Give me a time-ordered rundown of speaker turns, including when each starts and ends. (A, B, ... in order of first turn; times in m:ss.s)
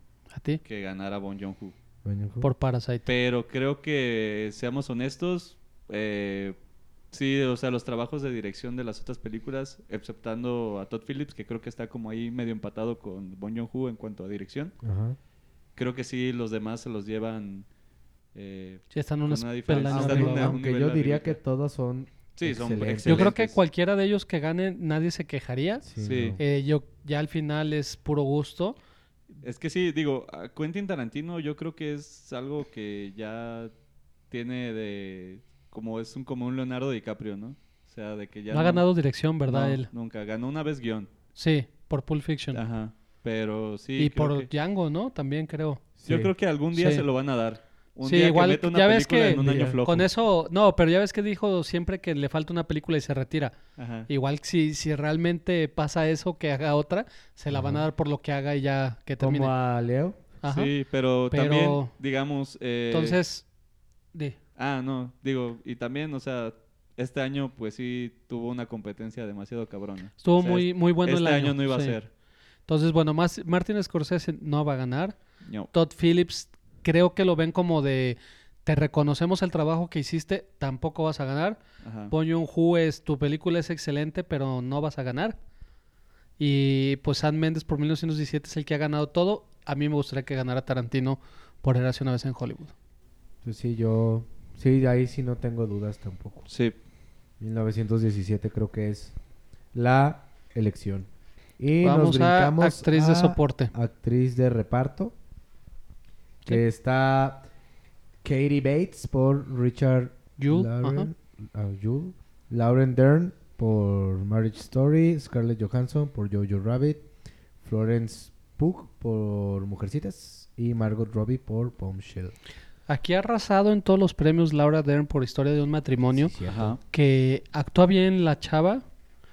0:00.3-0:00.6 A
0:00.6-0:01.8 B
0:02.0-0:02.5 C
0:02.4-0:03.1 A
0:03.1-0:06.6 B
0:07.1-0:14.8 B
0:14.8-0:15.2 C
0:15.8-0:17.7 B
0:18.3-0:21.4 B
0:18.9-0:20.6 A
0:19.7-0:23.3 C
0:22.4-0:23.6 B
0:23.1-0:25.8 A
0:25.8-0:26.4 C
0:26.0-0:26.4 B
0:26.4-0:28.8 A
0:29.4-0:33.7 B
0:34.3-0:38.8 B
0:38.5-0:39.9 A
0:39.5-0:41.1 B
0:41.4-0:42.6 A
0:42.5-0:44.5 B
0:44.0-0:45.9 A
0:46.0-0:46.3 C
0:46.1-0:50.1 B
0:46.7-0:47.0 A
0:48.0-0:53.6 A
0:49.4-0:49.8 C
0:53.8-0:54.1 B
0:54.1-0:59.5 A
0:57.5-0:57.9 C
0:59.2-1:00.2 C
1:00.4-1:00.7 A
1:00.4-1:03.2 B
1:01.3-1:01.9 A
1:02.9-1:03.5 A
1:04.6-1:12.1 B
1:10.2-1:12.0 A
1:12.7-1:15.2 A
1:15.4-1:15.7 B
1:15.7-1:25.4 A
1:21.8-1:22.1 B
1:26.4-1:32.7 A
1:33.4-1:36.5 C
1:36.5-1:36.8 B
1:37.4-1:39.2 C
1:39.7-1:45.2 C
1:41.8-1:43.7 A
1:46.5-1:47.5 C
1:48.2-1:57.1 C
1:50.4-1:51.1 A
1:57.6-2:02.4 C
2:02.9-2:06.3 A
2:06.1-2:06.8 C
2:06.4-2:06.8 B
2:06.9-2:08.8 A